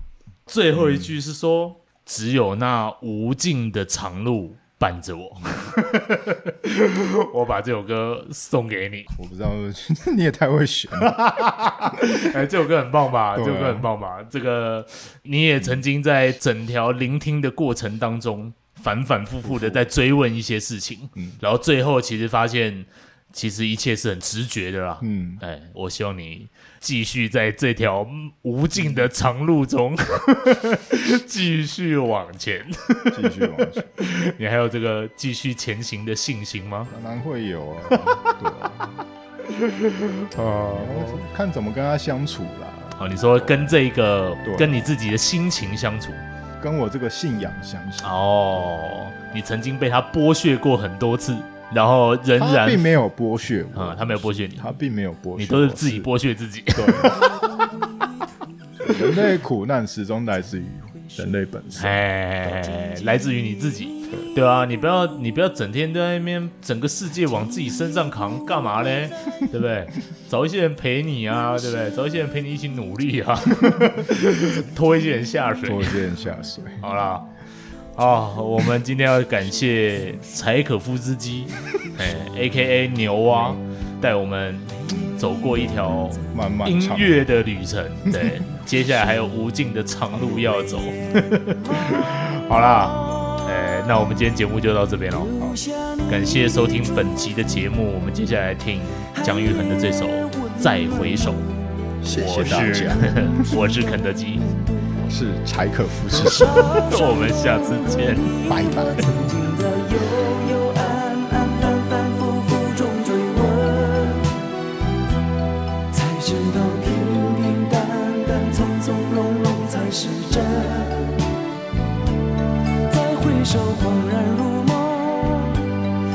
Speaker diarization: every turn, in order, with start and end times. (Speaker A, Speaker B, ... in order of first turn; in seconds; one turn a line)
Speaker A: 0.5-9.1
Speaker B: 0.7-1.1
Speaker B: 9.1-11.1
Speaker A: 10.9-36.9
Speaker B: 11.9-12.3
Speaker B: 13.3-13.9
Speaker B: 19.4-19.8
Speaker B: 25.0-25.4
Speaker B: 28.8-29.1
Speaker B: 33.1-33.9
Speaker B: 36.9-39.0
Speaker A: 39.5-41.2
Speaker B: 40.7-43.0
Speaker A: 43.0-46.2
Speaker B: 44.4-44.9
Speaker B: 46.6-48.2
Speaker A: 48.0-52.8
Speaker B: 52.4-56.1
Speaker A: 53.7-54.7
Speaker A: 55.4-57.4
Speaker B: 56.7-57.3
Speaker C: 57.4-58.1
Speaker B: 58.9-62.0
Speaker C: 60.9-61.2
Speaker A: 61.8-76.0
Speaker B: 75.6-76.8
Speaker A: 76.8-77.3
Speaker A: 78.0-95.3
Speaker B: 83.3-83.6
Speaker C: 85.0-86.0
Speaker B: 86.3-87.2
Speaker B: 88.1-88.4
Speaker C: 91.2-92.0
Speaker C: 95.1-96.8
Speaker A: 96.1-101.5
Speaker C: 100.4-101.4
Speaker B: 102.0-103.5
Speaker A: 102.1-104.5
Speaker C: 103.2-103.6
Speaker C: 104.3-105.1
Speaker B: 105.1-106.8
Speaker A: 106.1-108.4
Speaker C: 106.2-114.4
Speaker B: 108.5-109.2
Speaker C: 115.9-121.2
Speaker C: 122.9-125.7